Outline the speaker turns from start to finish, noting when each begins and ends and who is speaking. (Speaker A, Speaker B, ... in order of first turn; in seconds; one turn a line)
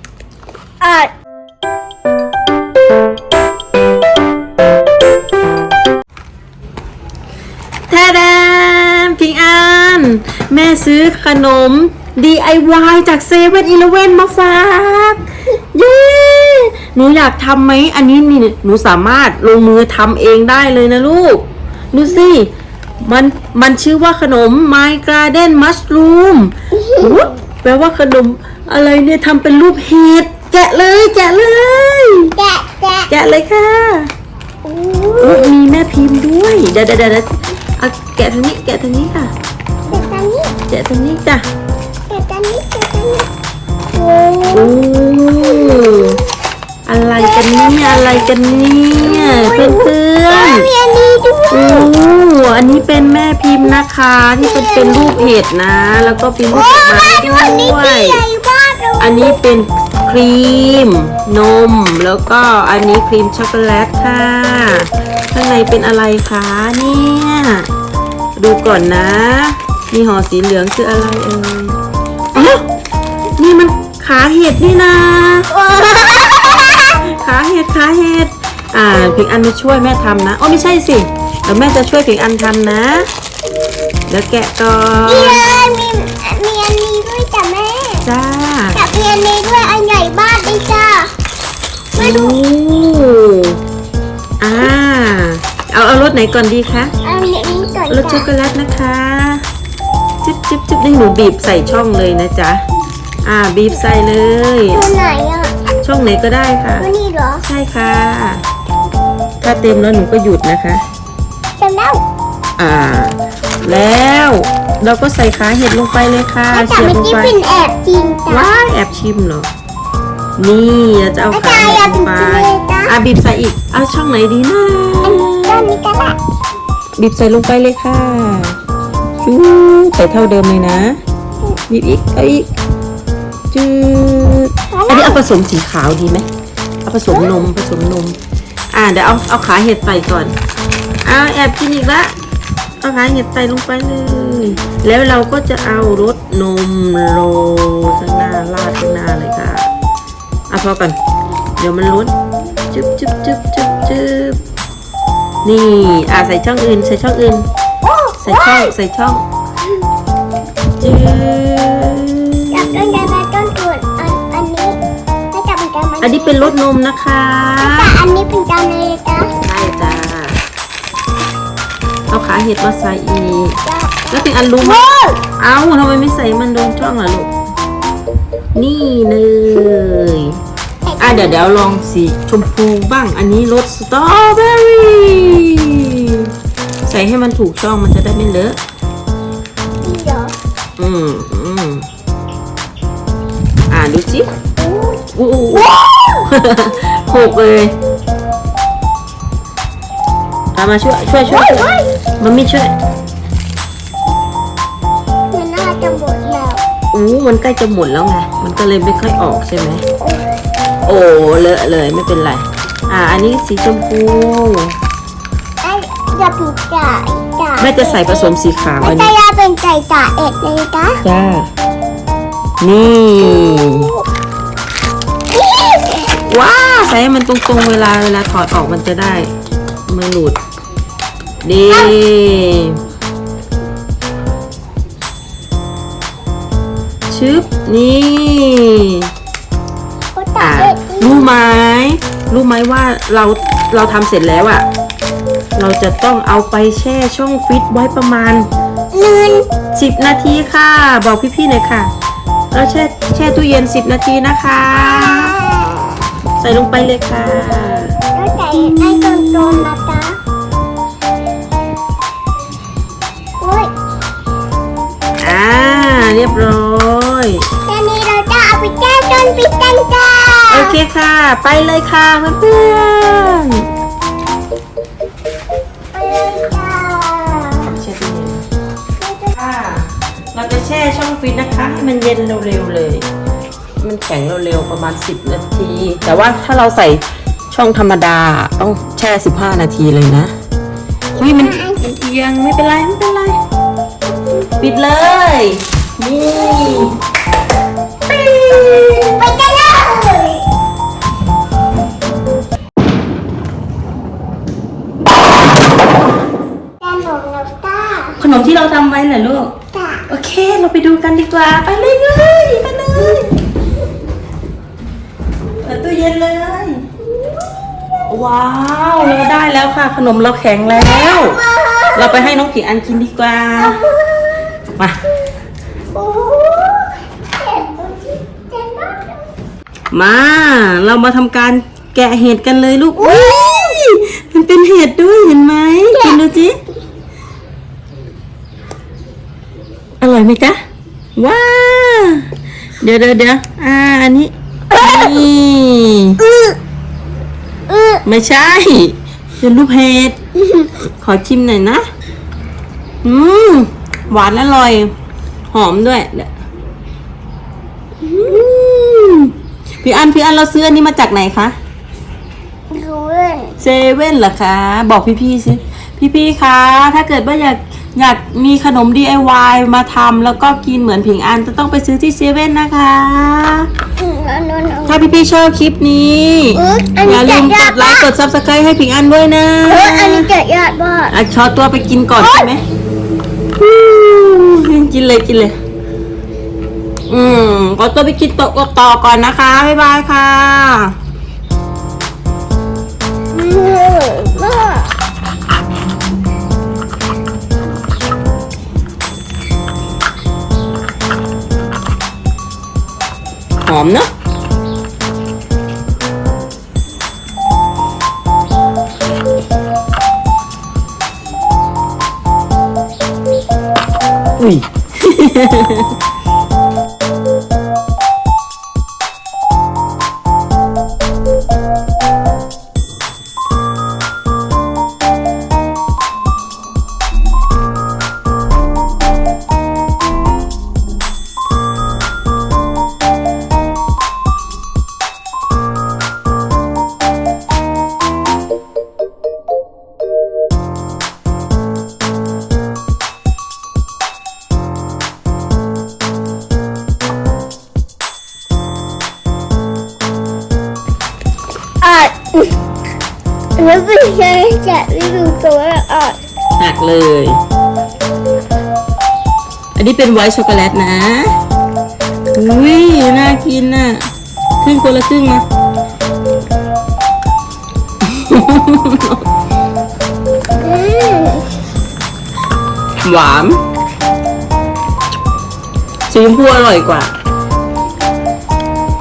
Speaker A: 0.8-1.1
Speaker B: 7.9-22.5
Speaker B: 23.0-32.4
Speaker A: 26.7-27.4
Speaker A: 32.4-33.1
Speaker B: 33.1-34.1
Speaker A: 34.6-35.5
Speaker B: 35.2-39.3
Speaker A: 39.9-40.6
Speaker B: 40.7-41.5
Speaker A: 42.1-43.3
Speaker A: 43.9-44.8
Speaker B: 44.5-46.2
Speaker A: 45.4-46.2
Speaker B: 46.9-50.7
Speaker A: 47.1-48.3
Speaker A: 49.0-51.9
Speaker B: 51.5-58.2
Speaker A: 54.4-55.3
Speaker A: 56.5-59.4
Speaker B: 59.0-67.7
Speaker B: 68.4-71.8
Speaker B: 72.3-72.7
Speaker B: 73.4-75.5
Speaker A: 75.5-77.1
Speaker B: 76.9-83.1
Speaker B: 84.1-85.5
Speaker A: 85.0-88.1
Speaker B: 88.0-88.8
Speaker A: 88.7-91.1
Speaker B: 92.0-93.6
Speaker A: 92.0-92.4
Speaker B: 94.4-96.9
Speaker A: 97.0-98.3
Speaker B: 97.9-99.4
Speaker B: 100.2-102.6
Speaker B: 103.2-104.9
Speaker A: 104.7-105.5
Speaker B: 105.8-106.9
Speaker A: 106.8-107.4
Speaker B: 107.4-108.4
Speaker B: 109.4-110.8
Speaker A: 111.6-112.0
Speaker B: 112.6-117.4
Speaker A: 116.5-118.6
Speaker B: 118.3-119.5
Speaker B: 120.4-125.7
Speaker A: 121.3-123.0
Speaker A: 125.0-126.2
Speaker B: 127.0-128.6
Speaker B: 129.2-131.0
Speaker B: 131.7-132.5
Speaker B: 133.5-136.3
Speaker A: 134.7-135.2
Speaker B: 136.8-138.2
Speaker A: 137.1-137.4
Speaker B: 138.7-140.3
Speaker B: 141.1-142.2
Speaker B: 142.8-149.7
Speaker B: 150.5-151.0
Speaker B: 151.6-152.1
Speaker B: 152.7-154.4
Speaker B: 155.4-157.5
Speaker A: 157.9-158.7
Speaker B: 158.2-159.2
Speaker B: 160.8-163.1
Speaker A: 162.5-164.8
Speaker A: 165.3-166.6
Speaker B: 166.0-167.9
Speaker A: 167.6-169.3
Speaker B: 169.4-170.4
Speaker B: 172.1-174.8
Speaker A: 173.6-175.2
Speaker B: 175.4-177.3
Speaker B: 178.6-180.4
Speaker A: 180.8-181.5
Speaker B: 181.0-186.3
Speaker B: 186.9-188.6
Speaker A: 189.8-190.3
Speaker B: 190.8-191.9
Speaker B: 193.7-194.3
Speaker A: 194.6-196.3
Speaker B: 195.1-197.8
Speaker B: 200.6-202.7
Speaker A: 201.3-201.9
Speaker A: 205.3-206.6
Speaker B: 206.9-209.8
Speaker A: 210.0-210.3
Speaker B: 210.8-214.8
Speaker A: 215.6-221.0
Speaker B: 217.6-219.1
Speaker B: 221.0-221.5
Speaker B: 222.6-223.9
Speaker A: 223.3-224.0
Speaker A: 225.3-226.2
Speaker B: 226.3-229.3
Speaker B: 229.9-230.4
Speaker B: 231.4-232.8
Speaker A: 231.7-232.0
Speaker B: 237.1-239.1
Speaker A: 240.2-241.3
Speaker B: 240.4-244.7
Speaker B: 245.6-248.5
Speaker A: 248.9-249.5
Speaker B: 249.7-251.9
Speaker B: 252.5-255.4
Speaker A: 254.8-256.0
Speaker B: 256.4-258.0
Speaker A: 258.1-260.2
Speaker B: 258.5-259.7
Speaker A: 263.4-263.7
Speaker B: 265.2-267.5
Speaker A: 267.7-270.8
Speaker B: 270.5-273.7
Speaker A: 275.9-277.7
Speaker B: 277.6-278.4
Speaker A: 279.0-279.4
Speaker B: 279.3-283.1
Speaker B: 283.8-290.3
Speaker A: 291.1-291.9
Speaker B: 291.2-293.4
Speaker B: 294.6-296.9
Speaker A: 296.3-296.9
Speaker B: 298.4-299.1
Speaker A: 298.4-300.4
Speaker A: 306.8-308.2
Speaker B: 308.2-309.5
Speaker A: 309.7-310.0
Speaker B: 310.1-313.3
Speaker B: 315.6-316.9
Speaker B: 318.1-321.4
Speaker A: 320.7-322.4
Speaker B: 321.9-323.8
Speaker A: 323.6-324.4
Speaker A: 325.9-329.3
Speaker B: 329.9-336.6
Speaker A: 333.0-333.8
Speaker A: 335.9-336.2
Speaker B: 340.0-340.6
Speaker B: 341.2-342.3
Speaker B: 342.8-346.2
Speaker A: 346.3-346.6
Speaker A: 347.7-348.0
Speaker B: 348.1-350.2
Speaker B: 350.9-351.9
Speaker B: 353.0-354.9
Speaker B: 355.5-356.3
Speaker A: 358.0-358.4
Speaker B: 358.2-361.6
Speaker A: 362.7-363.6
Speaker B: 363.6-373.7
Speaker A: 374.0-375.0
Speaker B: 374.9-380.3
Speaker A: 376.5-378.1
Speaker A: 379.7-381.2
Speaker B: 381.1-382.6
Speaker A: 382.2-382.5
Speaker B: 383.6-385.6
Speaker B: 387.1-390.9
Speaker A: 393.3-394.9
Speaker B: 403.6-404.1
Speaker B: 414.4-415.9
Speaker A: 451.8-452.5
Speaker A: 453.6-456.2
Speaker B: 456.6-457.4
Speaker B: 459.8-461.4
Speaker B: 462.3-464.0
Speaker B: 464.6-465.4
Speaker B: 468.0-469.2
Speaker A: 470.6-471.5
Speaker B: 473.0-473.6
Speaker B: 476.1-477.1